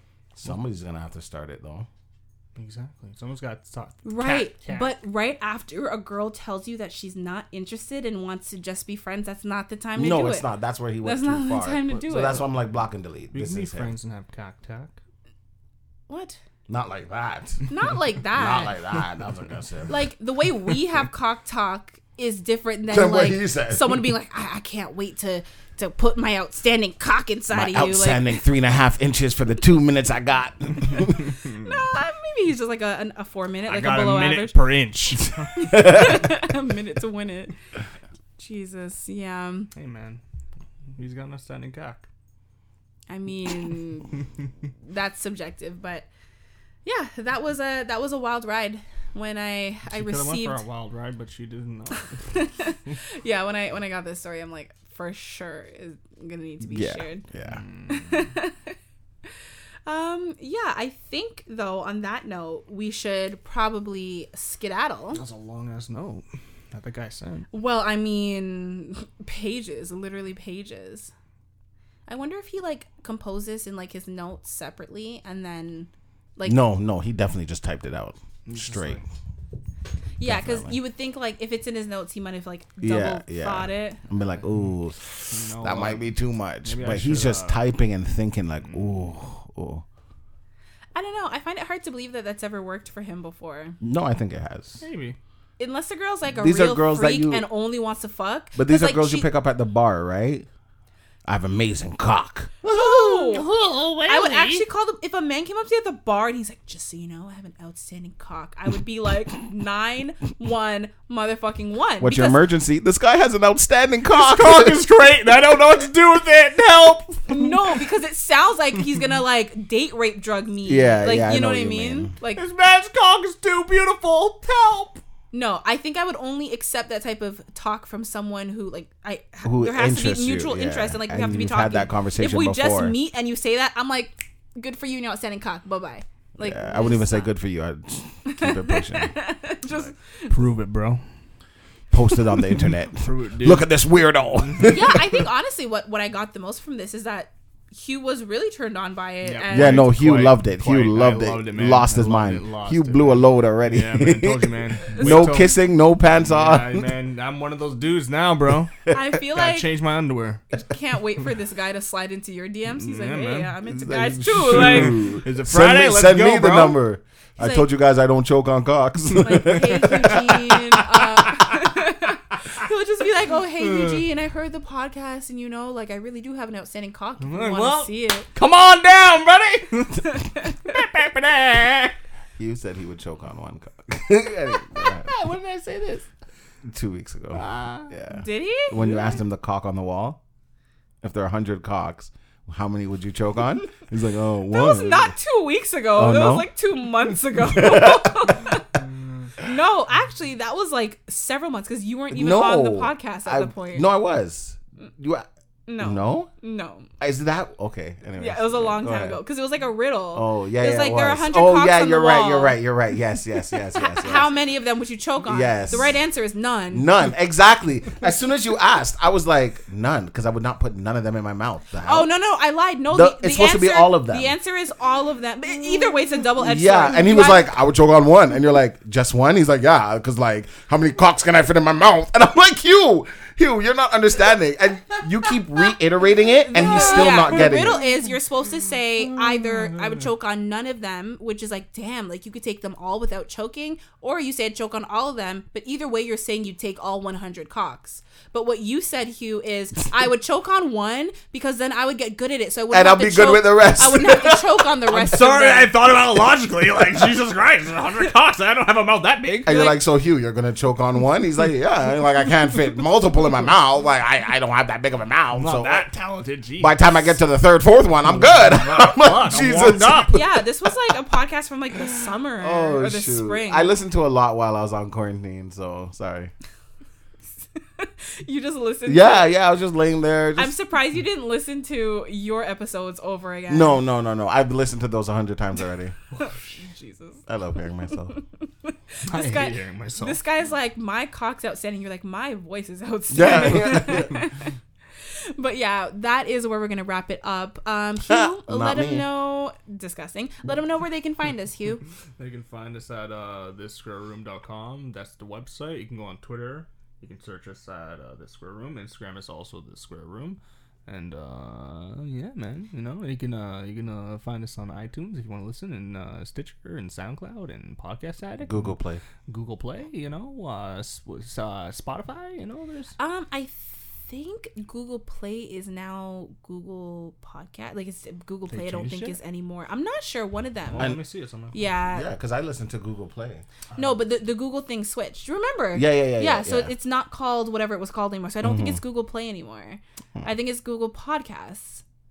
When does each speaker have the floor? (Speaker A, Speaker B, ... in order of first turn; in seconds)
Speaker A: 0.4-1.9, 10.0-13.9, 16.7-17.6, 18.3-20.0, 22.9-24.1, 27.5-31.3, 35.8-36.1, 56.6-57.6, 76.5-79.0, 80.2-80.8, 82.8-89.8, 93.8-94.8, 96.3-97.5, 98.6-100.5, 101.3-103.0, 112.0-114.9, 120.7-122.1, 129.4-132.9, 136.4-139.9, 141.9-145.1, 149.5-156.9, 163.7-170.3, 182.4-185.1, 186.7-190.2, 191.0-195.2, 195.9-196.5, 197.2-198.3, 202.1-205.3, 205.8-206.3, 207.0-209.2, 210.1-214.3, 215.2-216.0, 216.7-222.1, 222.9-224.3, 226.4-237.8, 252.7-254.6, 259.5-265.9, 266.6-270.3, 272.4-276.3, 278.9-280.5, 283.5-285.9, 287.3-288.2, 293.1-294.2, 298.1-299.1, 318.4-319.0, 331.9-333.4, 335.7-336.7, 338.4-338.8
Speaker B: 2.6-4.9, 13.3-15.0, 33.7-35.7, 39.8-40.2, 40.9-42.1, 49.9-53.0, 57.4-58.2, 65.1-67.5, 78.5-79.1, 85.3-87.6, 94.8-95.2, 103.0-104.7, 114.1-117.7, 122.3-125.0, 140.3-141.0, 142.9-143.7, 144.4-145.1, 149.2-160.4, 162.7-163.6, 164.3-166.8, 169.3-171.7, 173.5-174.1, 177.2-182.0, 184.6-186.1, 187.3-187.9, 237.0-237.6, 239.4-240.1, 254.9-259.6, 265.4-267.2, 268.0-270.2, 286.1-286.5, 289.1-290.2, 302.2-318.8, 319.3-322.9, 328.5-329.2, 330.7-331.6
Speaker C: 4.0-10.5, 11.0-12.5, 16.1-16.4, 17.7-18.8, 19.9-28.4, 31.5-34.6, 35.5-37.6, 38.4-39.7, 43.1-44.2, 44.8-46.1, 46.9-50.6, 52.3-57.3, 57.9-58.8, 59.9-65.2, 67.5-71.1, 72.1-76.6, 80.2-84.0, 91.0-93.8, 95.6-99.3, 102.6-103.5, 104.1-112.5, 117.3-122.4, 125.3-137.3, 138.3-140.3, 144.6-149.9, 158.9-159.7, 160.5-165.2, 167.4-167.7, 169.2-178.3, 180.1-180.7, 188.1-189.0, 194.5-198.7, 199.4-203.9, 205.7-206.9, 208.2-212.6, 213.5-216.9, 221.8-227.5, 236.5-255.8, 259.5-259.8, 270.1-273.8, 277.8-279.3, 280.4-283.8, 286.1-287.2, 288.2-294.5, 295.4-301.8, 323.0-331.0, 331.5-332.1, 333.8-341.8